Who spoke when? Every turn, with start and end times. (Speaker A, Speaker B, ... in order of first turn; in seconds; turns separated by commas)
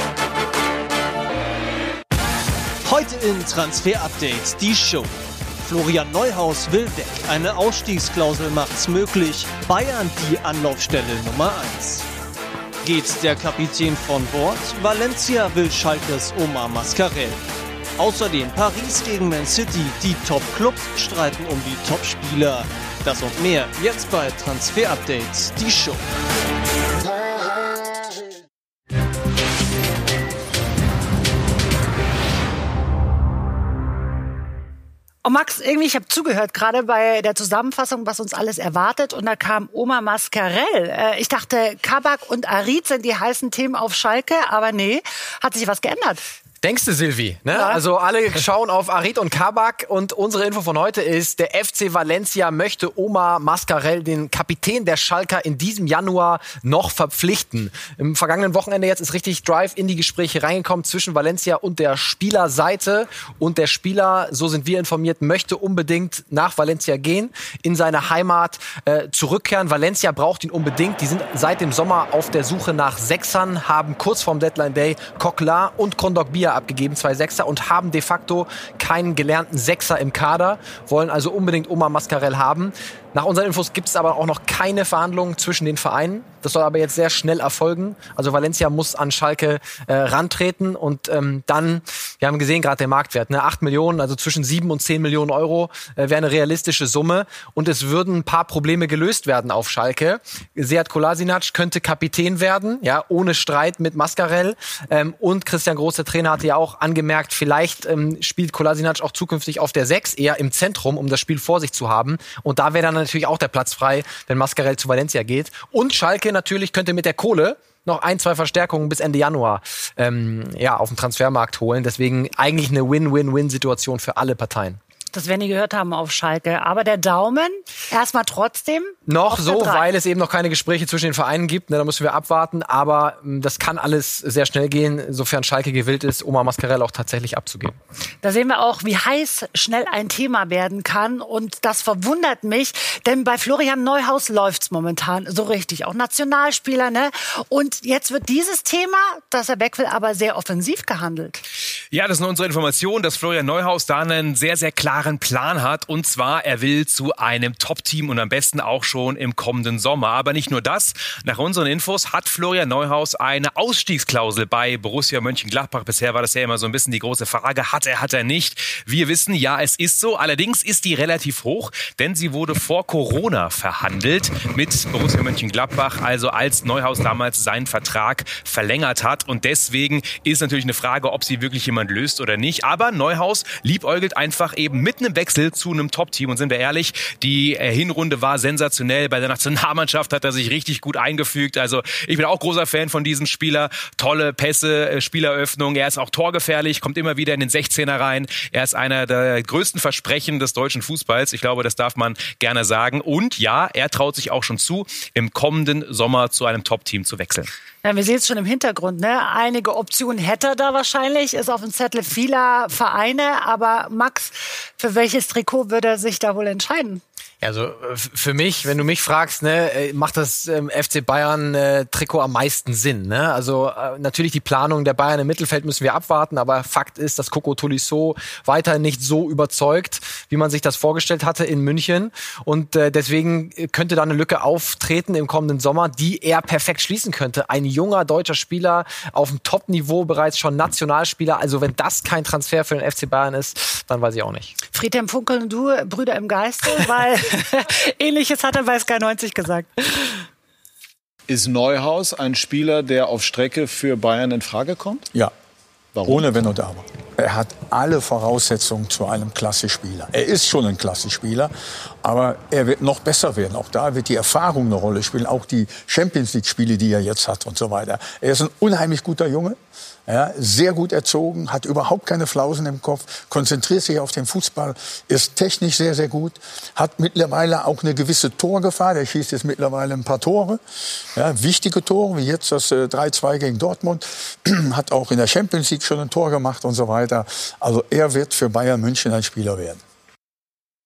Speaker A: 2.9-12.1, Speaker A: 12.8-17.4, Speaker A: 18.0-26.0, Speaker B: 35.2-46.2, Speaker C: 46.6-124.8, Speaker B: 47.5-47.8, Speaker B: 125.1-129.9, Speaker C: 129.1-137.8, Speaker B: 138.2-151.4, Speaker D: 151.9-207.5, Speaker B: 207.8-217.0, Speaker C: 217.4-244.5, Speaker B: 244.7-250.2, Speaker E: 251.3-255.1, Speaker E: 255.9-256.3, Speaker F: 256.1-261.5, Speaker F: 262.0-280.6, Speaker F: 281.1-289.8